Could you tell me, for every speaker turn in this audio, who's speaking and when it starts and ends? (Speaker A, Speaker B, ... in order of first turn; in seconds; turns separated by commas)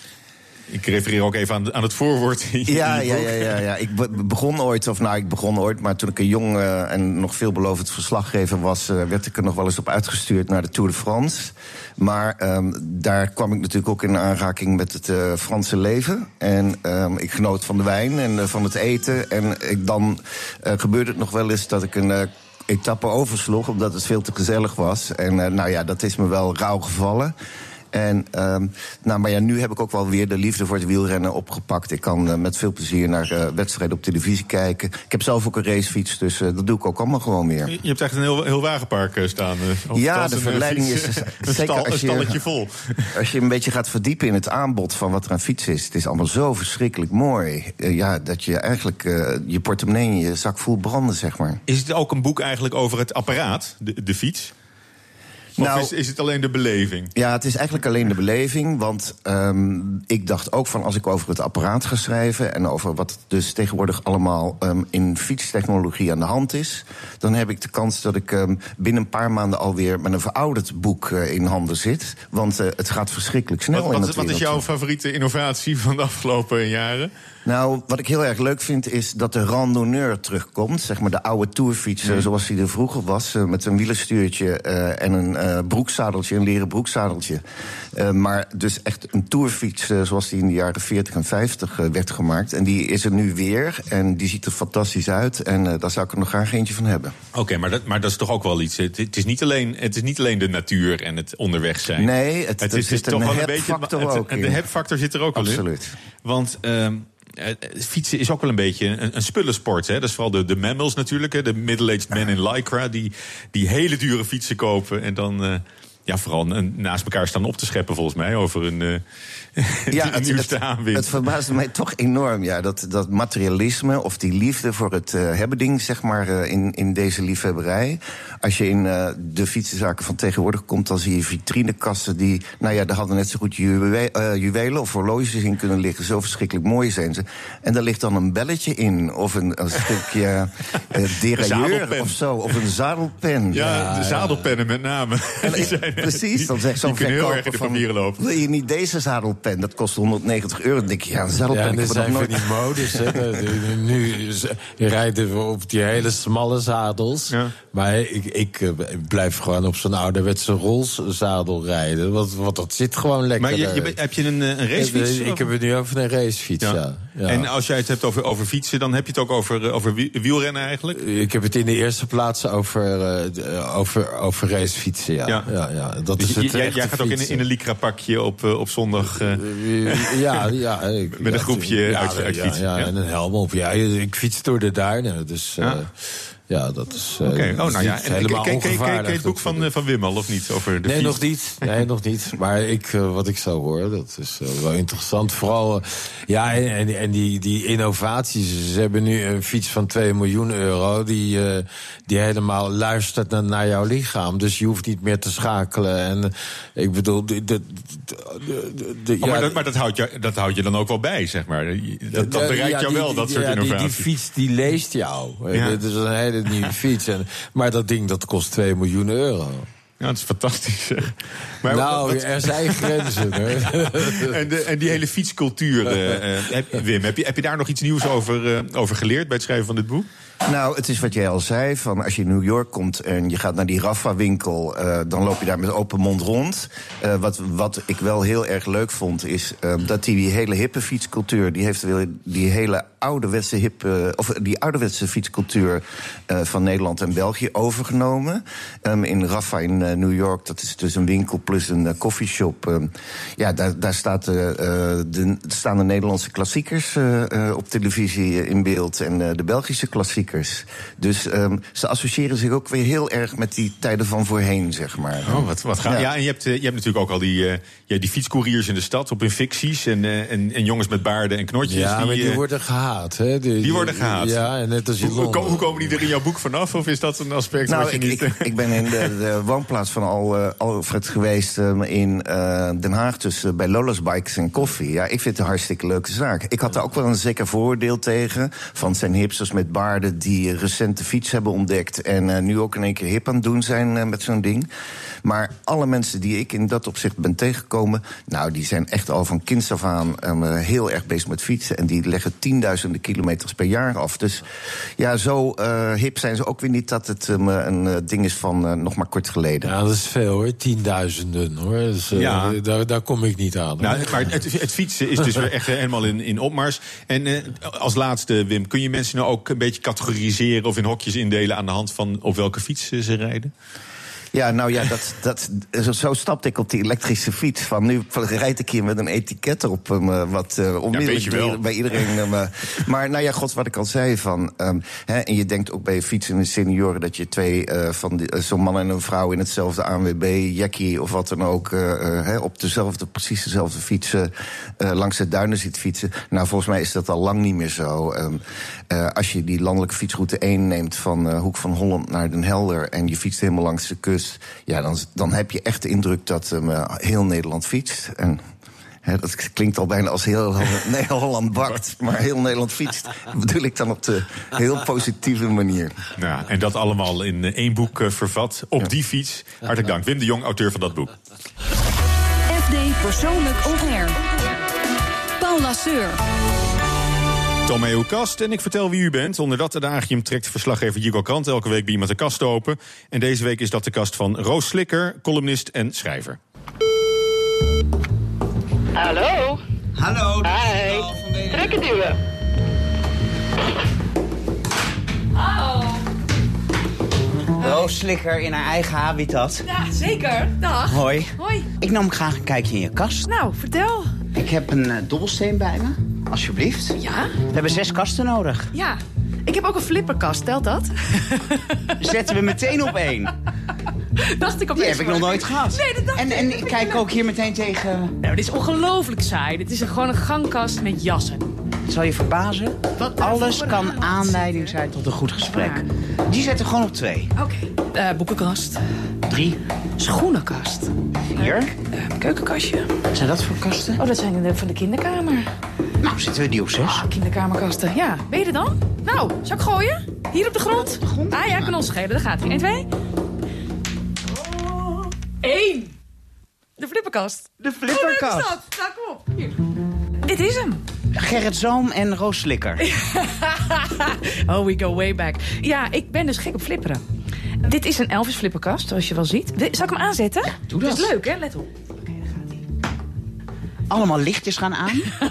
Speaker A: 0.7-3.6, Speaker B: 2.7-27.3, Speaker B: 27.9-37.7, Speaker A: 37.7-43.1, Speaker B: 39.9-42.4, Speaker B: 43.1-51.6, Speaker A: 51.7-54.5, Speaker A: 55.5-57.1, Speaker B: 55.6-55.9, Speaker B: 57.1-74.6, Speaker A: 73.7-77.1, Speaker B: 77.5-87.4, Speaker B: 87.9-97.1, Speaker A: 97.3-102.1, Speaker B: 102.0-104.6, Speaker A: 102.6-105.6, Speaker B: 105.3-105.9, Speaker A: 106.2-119.0, Speaker A: 119.6-121.2, Speaker B: 119.9-143.6, Speaker A: 141.3-142.1, Speaker A: 143.5-148.2, Speaker C: 143.5-144.5, Speaker B: 145.4-153.2, Speaker C: 151.5-163.9, Speaker A: 163.4-165.5, Speaker C: 164.8-167.5, Speaker A: 166.6-171.0, Speaker C: 170.9-177.4, Speaker A: 176.2-180.2, Speaker C: 179.1-189.7, Speaker A: 181.2-182.9, Speaker A: 187.2-191.7, Speaker C: 190.8-209.6, Speaker A: 209.2-214.1, Speaker C: 212.1-219.7, Speaker A: 215.5-215.8, Speaker A: 220.0-230.1, Speaker C: 221.7-224.3, Speaker B: 230.4-266.1, Speaker A: 265.2-272.4, Speaker C: 271.6-275.9, Speaker A: 273.6-274.4, Speaker A: 275.0-279.1, Speaker B: 277.6-294.7, Speaker B: 295.2-309.7, Speaker C: 309.6-314.2, Speaker A: 312.1-312.6, Speaker A: 313.8-323.5, Speaker B: 324.3-358.4, Speaker A: 330.9-331.6, Speaker B: 359.0-365.9, Speaker A: 366.2-371.1, Speaker D: 372.5-374.2, Speaker D: 375.4-376.2, Speaker A: 377.6-386.4, Speaker E: 389.0-389.6, Speaker F: 390.0-391.8, Speaker E: 390.4-392.1, Speaker F: 397.6-399.6, Speaker G: 399.6-401.7, Speaker F: 400.9-403.3, Speaker G: 403.2-404.1, Speaker F: 404.3-407.0, Speaker G: 407.0-407.4, Speaker F: 407.5-408.7, Speaker G: 408.7-412.2, Speaker F: 412.0-413.3, Speaker G: 414.2-417.0, Speaker F: 414.8-418.1, Speaker G: 418.2-421.5, Speaker F: 421.9-427.3, Speaker G: 423.1-424.7, Speaker G: 425.4-425.8, Speaker G: 427.4-428.8, Speaker F: 429.3-429.6, Speaker G: 430.0-432.9, Speaker F: 431.3-431.7, Speaker F: 433.1-434.0, Speaker G: 434.0-435.5, Speaker F: 436.0-437.1, Speaker G: 436.9-442.9, Speaker F: 440.7-441.8, Speaker G: 445.4-445.9, Speaker G: 446.8-449.6, Speaker F: 447.6-448.5, Speaker G: 450.2-450.8, Speaker F: 451.1-452.8, Speaker G: 452.8-457.0, Speaker G: 457.6-461.7, Speaker F: 460.4-461.1, Speaker F: 463.9-465.1